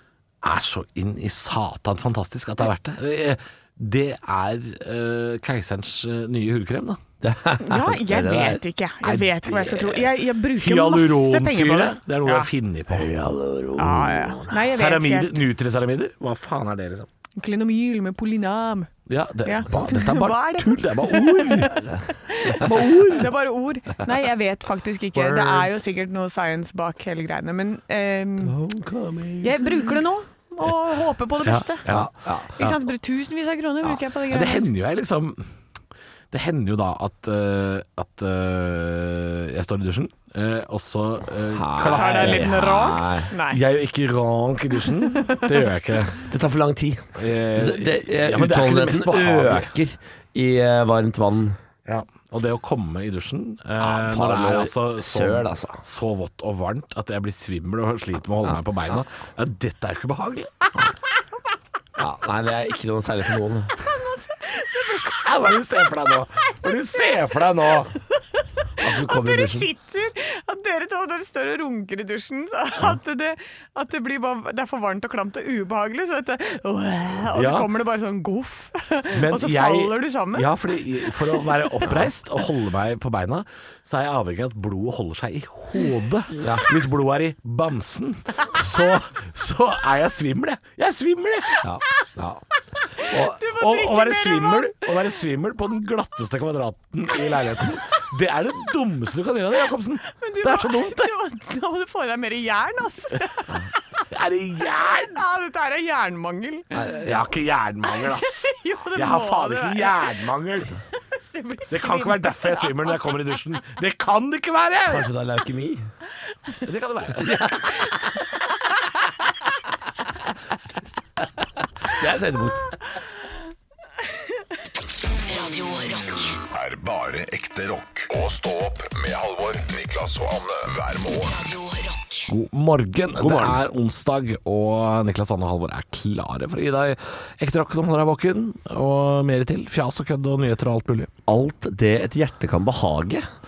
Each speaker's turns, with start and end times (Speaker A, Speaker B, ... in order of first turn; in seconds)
Speaker A: 0.4-7.0, 9.0-13.1, 14.6-17.1, 19.1-21.8, 31.4-32.8, 34.3-35.5, 36.3-42.8, 43.5-46.3, 47.2-49.7, 51.9-60.9, 64.9-67.9, 77.3-77.7, 79.1-91.7, 93.4-101.1, 104.1-105.2, 107.0-110.8, 111.7-115.1, 116.6-117.9, 132.3-141.1
Speaker B: 7.2-8.6, 12.9-14.6, 22.5-23.3, 25.1-25.9, 28.4-30.0, 31.9-32.5, 41.5-43.3, 46.3-51.6, 53.8-55.8, 62.0-63.7, 68.8-69.7, 86.4-86.7, 91.6-92.4, 106.7-107.3, 114.9-115.9, 117.2-117.5, 121.9-122.7, 133.2-133.6, 141.3-143.3
Speaker C: 7.6-12.5, 13.8-15.4, 17.4-18.9, 19.5-28.6, 29.4-31.9, 32.5-34.7, 41.9-43.6, 63.8-65.2, 68.8-80.5, 81.1-81.7, 92.9-94.9, 100.2-103.8, 105.2-106.7, 107.9-110.2, 111.0-113.0
Speaker D: 125.1-126.4, 131.2-132.3
Speaker E: 126.5-131.3